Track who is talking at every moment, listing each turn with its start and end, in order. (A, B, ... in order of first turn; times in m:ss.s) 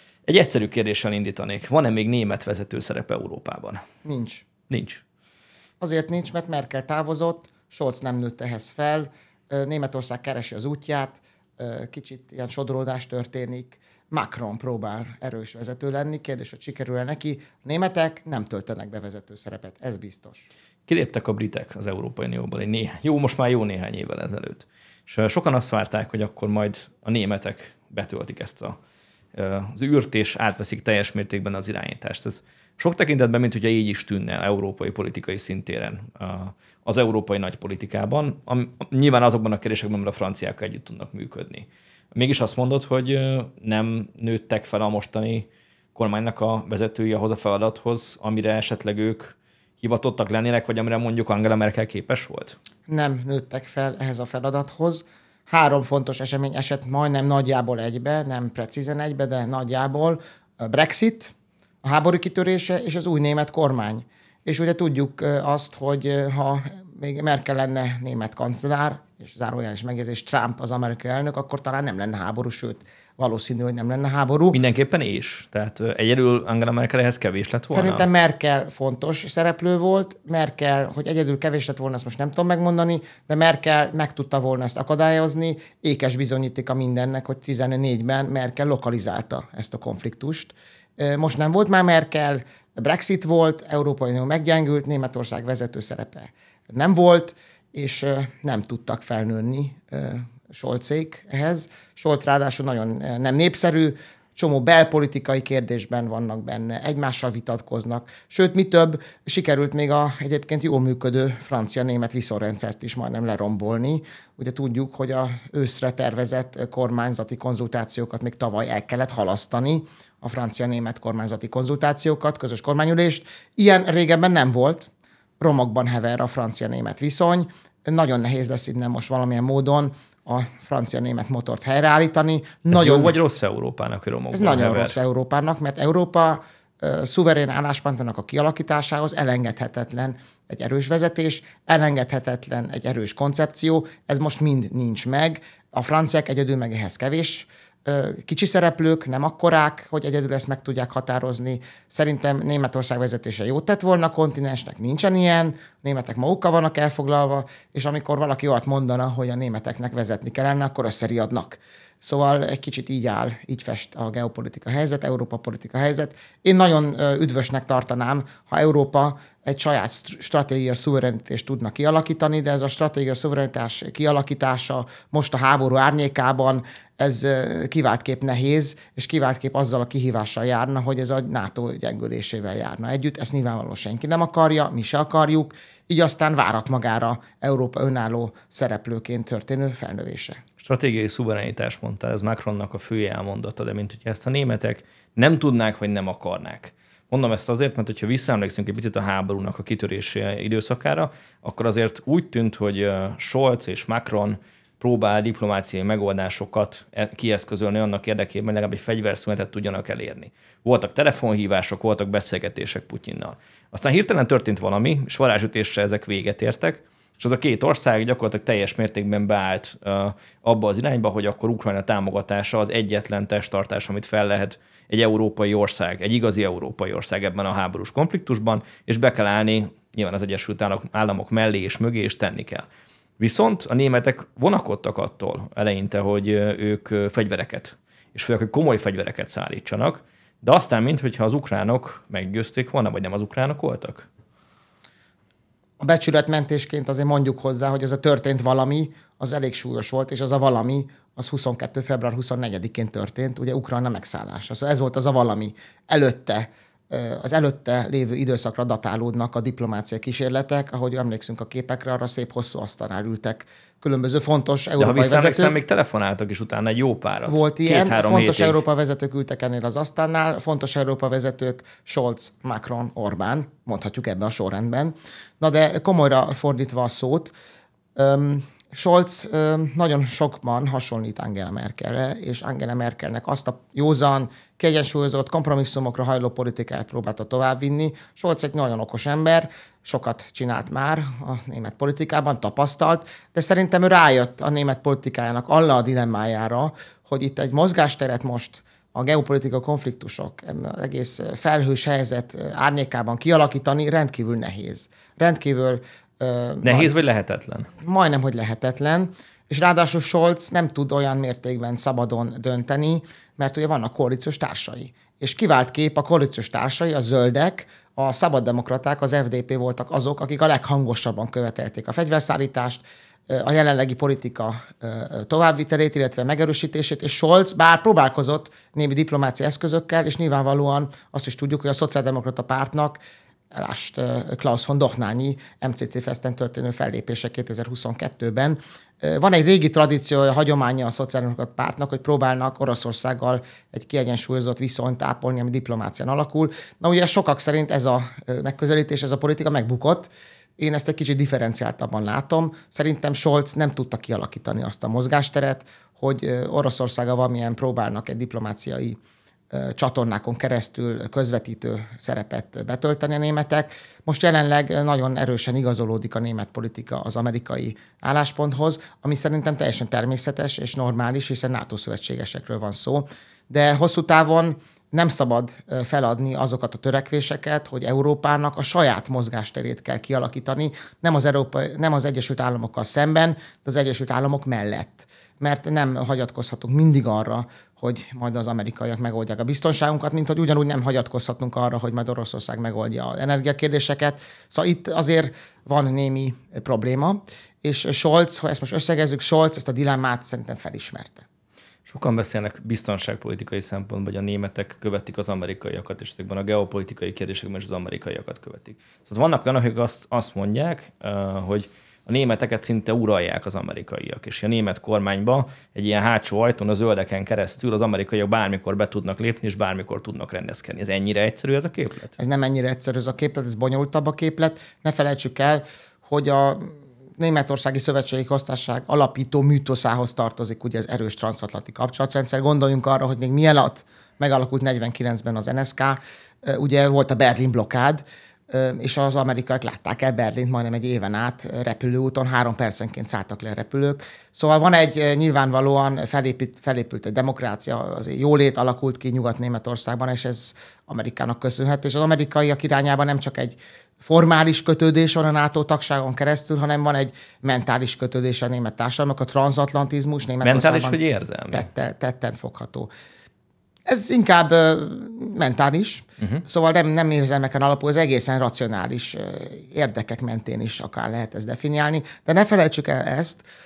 0:00.3-0:03.8 A
0:04.0-0:04.4 B
0:04.7-0:05.0 A
0:05.8-0:20.4 B
0:20.9-0:28.8 A
0:29.3-0:52.6 A
0:52.9-1:14.6 B
1:14.5-1:18.1 A
1:17.7-2:04.9 B
2:05.4-2:13.2 B
2:12.7-2:15.0 A
2:14.3-3:10.4 B
3:10.6-3:52.7 A
3:53.2-4:04.1 A
4:05.8-4:25.6 B
4:24.8-4:28.6 A
4:27.2-4:37.3 B
4:37.9-5:06.9 B
5:06.6-5:07.7 A
5:07.8-5:33.0 B
5:33.5-5:59.0 B
5:59.5-6:41.2 B
6:41.9-7:02.1 A
7:02.2-7:41.0 B
7:40.4-7:41.7 A
7:41.5-7:42.9 B
7:43.9-7:53.4 B